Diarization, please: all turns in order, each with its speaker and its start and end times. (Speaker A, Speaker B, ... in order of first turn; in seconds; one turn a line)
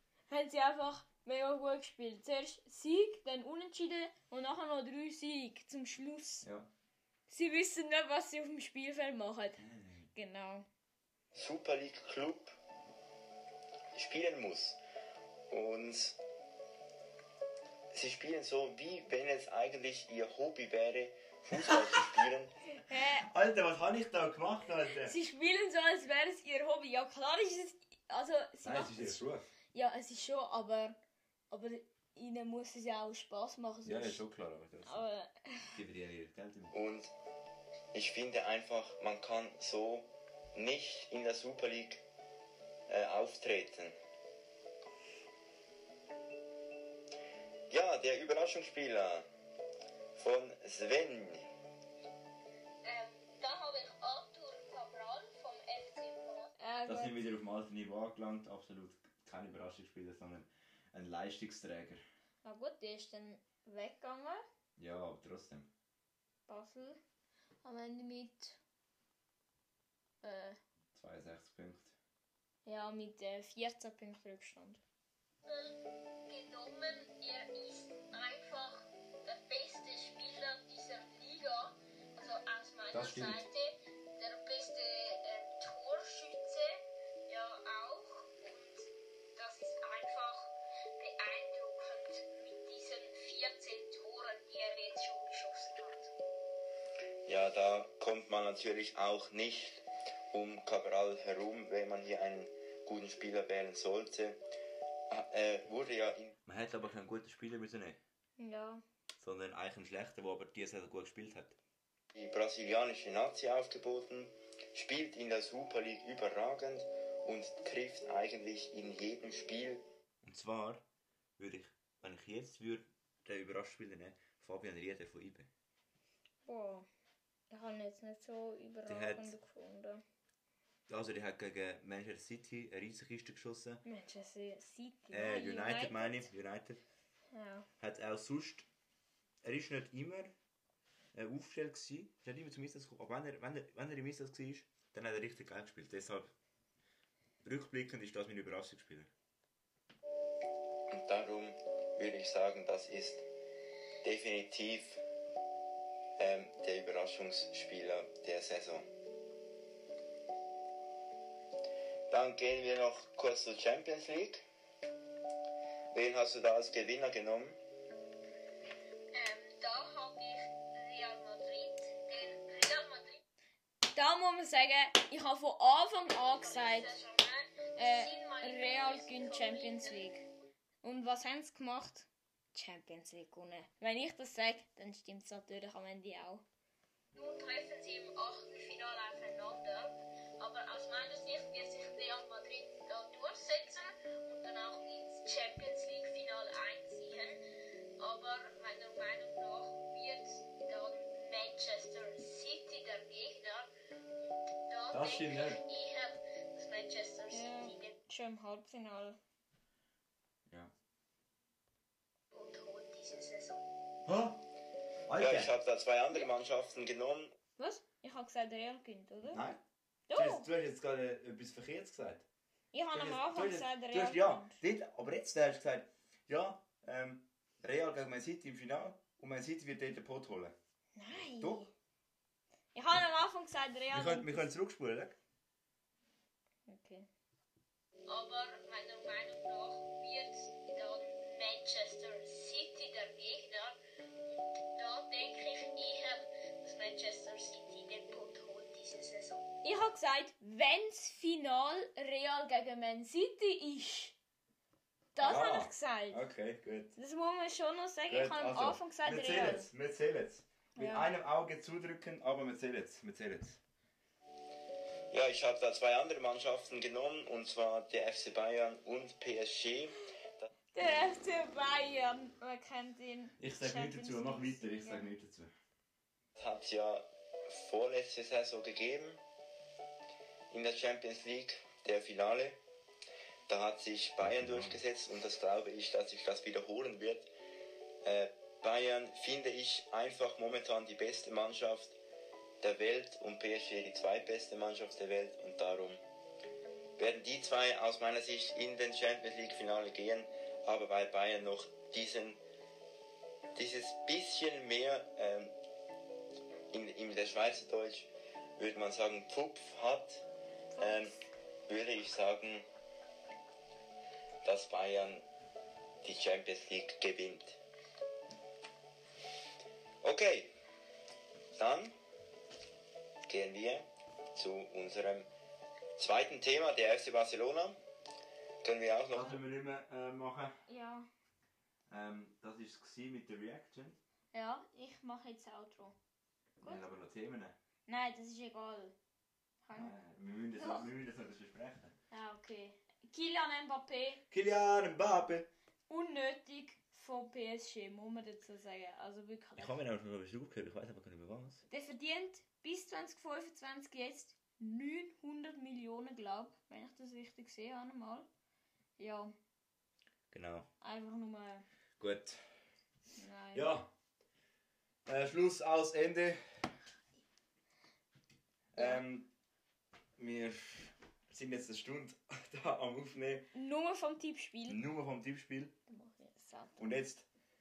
Speaker A: 0.3-6.5
Speaker B: 6.4-6.7
Speaker A: 7.3-9.6
Speaker B: 9.6-10.1
Speaker A: 10.1-10.7
Speaker C: 11.3-12.6
Speaker C: 13.9-14.8
Speaker C: 15.5-16.2
Speaker C: 17.9-22.5
Speaker A: 22.8-23.3
Speaker B: 23.2-25.1
Speaker A: 25.0-31.0
Speaker B: 28.6-29.5
Speaker A: 31.5-34.2
Speaker B: 33.8-35.0
Speaker A: 34.8-35.7
Speaker B: 35.7-36.7
Speaker C: 36.7-37.1
Speaker C: 37.9-42.0
Speaker C: 42.9-44.0
Speaker C: 47.7-49.3
Speaker C: 50.1-51.5
Speaker D: 52.8-56.5
Speaker A: 56.6-57.1
Speaker B: 56.9-62.0
Speaker A: 62.4-64.4
Speaker B: 64.8-65.7
Speaker A: 66.5-67.0
Speaker A: 67.6-68.6
Speaker A: 70.2-70.6
Speaker B: 70.9-71.9
Speaker A: 72.7-74.8
Speaker D: 75.4-86.7
Speaker B: 82.9-83.5
Speaker D: 87.3-96.1
Speaker C: 97.2-104.4
Speaker C: 105.1-106.3
Speaker B: 106.5-108.0
Speaker A: 108.4-108.8
Speaker B: 109.2-111.6
Speaker C: 112.1-119.8
Speaker B: 120.2-120.8
Speaker B: 121.4-125.5
Speaker A: 126.5-126.9
Speaker A: 127.5-130.0
Speaker B: 128.9-129.3
Speaker B: 130.9-133.8
Speaker A: 133.8-136.3
Speaker B: 135.1-136.8
Speaker A: 137.3-137.7
Speaker B: 137.8-138.7
Speaker B: 139.4-140.3
Speaker B: 141.1-146.3
Speaker B: 147.4-149.1
Speaker C: 150.9-153.2
Speaker C: 154.0-155.0
Speaker C: 156.2-158.9
Speaker C: 162.1-164.4
Speaker C: 165.9-167.6
Speaker D: 169.1-173.2
Speaker A: 173.9-177.0
Speaker D: 176.2-180.1
Speaker A: 177.8-180.2
Speaker A: 180.8-186.4
Speaker D: 187.1-197.4
Speaker D: 198.0-203.7
Speaker D: 204.7-208.0
Speaker B: 204.9-205.6
Speaker A: 207.3-209.2
Speaker B: 210.5-210.7
Speaker D: 212.3-213.7
Speaker B: 214.1-214.4
Speaker B: 215.1-215.5
Speaker C: 215.2-217.3
Speaker A: 217.6-219.4
Speaker B: 219.3-219.6
Speaker A: 220.1-220.5
Speaker B: 220.1-222.2
Speaker A: 222.7-224.6
Speaker B: 222.9-230.6
Speaker A: 230.9-231.7
Speaker B: 231.4-231.7
Speaker A: 232.7-234.5
Speaker B: 233.9-235.2
Speaker A: 236.7-237.1
Speaker D: 238.1-243.8
Speaker D: 244.3-249.5
Speaker A: 249.6-254.2
Speaker A: 255.1-256.2
Speaker B: 255.2-256.9
Speaker A: 256.9-259.7
Speaker B: 258.1-263.6
Speaker A: 260.8-261.1
Speaker C: 265.1-270.5
Speaker A: 270.7-275.1
Speaker B: 273.4-275.5
Speaker C: 276.4-279.2
Speaker C: 280.5-282.6
Speaker C: 283.5-287.3
Speaker B: 284.2-284.8
Speaker C: 288.0-291.9
Speaker C: 292.6-296.0
Speaker C: 297.0-302.4
Speaker C: 303.5-305.5
Speaker C: 306.7-310.2
Speaker A: 310.7-311.1
Speaker C: 310.8-311.1
Speaker C: 311.7-312.7
Speaker C: 314.4-315.2
Speaker C: 316.0-317.6
Speaker C: 320.0-320.5
Speaker C: 321.5-321.9
Speaker C: 323.3-325.3
Speaker C: 326.0-327.8
Speaker C: 328.6-329.4
Speaker B: 329.1-330.6
Speaker A: 330.7-331.1
Speaker B: 331.9-334.0
Speaker A: 334.3-335.9
Speaker B: 336.6-337.5
Speaker A: 337.9-338.9
Speaker A: 339.6-339.9
Speaker B: 339.7-341.9
Speaker A: 340.6-340.9
Speaker A: 342.1-344.2
Speaker B: 344.3-345.5
Speaker A: 345.9-349.8
Speaker B: 349.6-351.6
Speaker A: 351.7-358.3
Speaker A: 359.0-359.3
Speaker B: 360.3-360.7
Speaker A: 360.8-361.6
Speaker B: 362.0-362.6
Speaker A: 363.2-363.7
Speaker B: 363.5-363.9
Speaker B: 365.1-366.7
Speaker B: 368.7-369.3
Speaker A: 368.8-369.0
Speaker B: 370.2-373.4
Speaker A: 373.5-374.8
Speaker B: 374.7-375.7
Speaker A: 375.9-376.9
Speaker B: 376.8-377.2